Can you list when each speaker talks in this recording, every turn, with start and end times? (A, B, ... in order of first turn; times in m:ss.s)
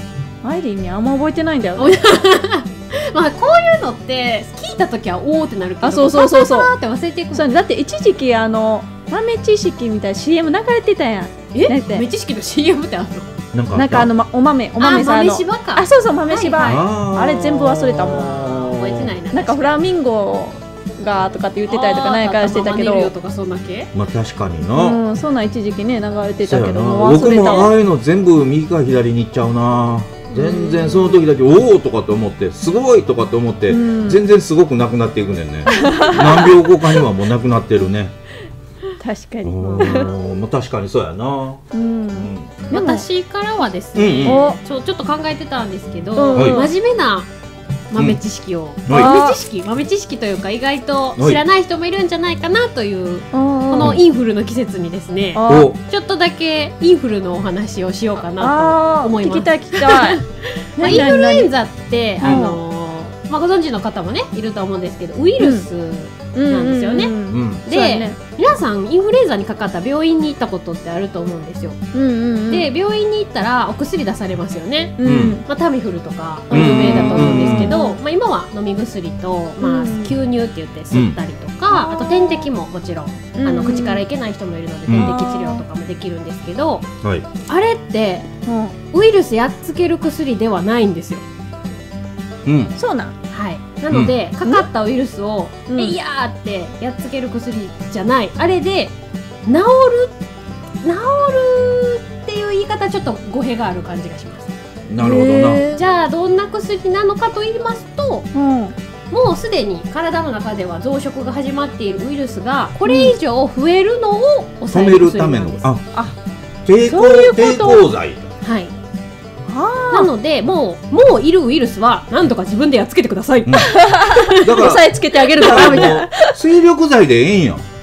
0:00.4-0:02.0 A
0:01.8-0:07.5 B
0:05.8-0:06.7 A
0:07.3-0:12.1 A
0:11.5-0:13.3 B
0:13.5-0:14.1 C
0:13.8-0:18.5 A
0:14.8-0:16.9 B
0:16.6-0:19.2 C
0:18.1-0:19.8 B
0:19.3-0:23.1 A
0:21.7-0:23.9 B
0:23.9-0:25.0 C
0:24.8-0:27.7 A
0:26.4-0:38.1 C
0:30.3-0:31.2 B
0:33.7-0:34.2 A
0:35.7-0:36.6 A
0:35.7-0:36.2 B
0:39.0-0:40.1 A
0:39.4-0:42.5 C
0:39.6-0:40.1 B
0:41.7-0:43.0 A
0:42.7-0:47.3 B
0:44.0-0:44.4 C
0:44.2-0:44.6 A
0:46.2-0:46.7 A
0:46.3-0:46.6 C
0:47.9-1:11.8 B
0:48.9-0:49.2 C
0:48.9-0:49.4 A
0:53.3-0:54.0 A
0:55.4-0:55.7 A
0:55.5-0:55.8 C
0:58.4-1:00.2 A
1:00.8-1:01.5 A
1:02.2-1:02.6 A
1:05.4-1:05.7 A
1:06.3-1:08.2 A
1:07.3-1:07.6 C
1:11.9-1:12.7 A
1:12.5-1:26.9 B
1:15.0-1:15.4 A
1:15.0-1:15.4 C
1:16.5-1:17.8 C
1:16.5-1:18.0 A
1:19.6-1:20.1 A
1:20.9-1:21.2 C
1:21.7-1:22.5 A
1:23.4-1:24.0 A
1:24.9-1:25.1 C
1:25.0-1:25.6 A
1:27.5-1:28.3 B
1:28.5-1:28.7 A
1:28.9-1:31.2 B
1:32.4-1:32.8 C
1:32.8-1:33.1 A
1:33.3-1:38.9 B
1:35.7-1:36.0 A
1:39.5-1:40.2 B
1:40.8-1:44.5 B
1:44.9-1:45.7 C
1:45.0-1:45.8 A
1:45.7-1:48.3 B
1:48.3-1:48.8 A
1:49.1-1:55.6 B
1:52.8-1:53.1 A
1:54.7-1:55.8 C
1:56.6-1:58.4 C
1:56.8-1:57.8 B
1:58.4-1:58.7 B
1:59.5-2:00.1 A
1:59.9-2:04.5 B
2:03.5-2:03.7 C
2:03.7-2:06.4 A
2:04.4-2:07.6 C
2:05.5-2:05.9 B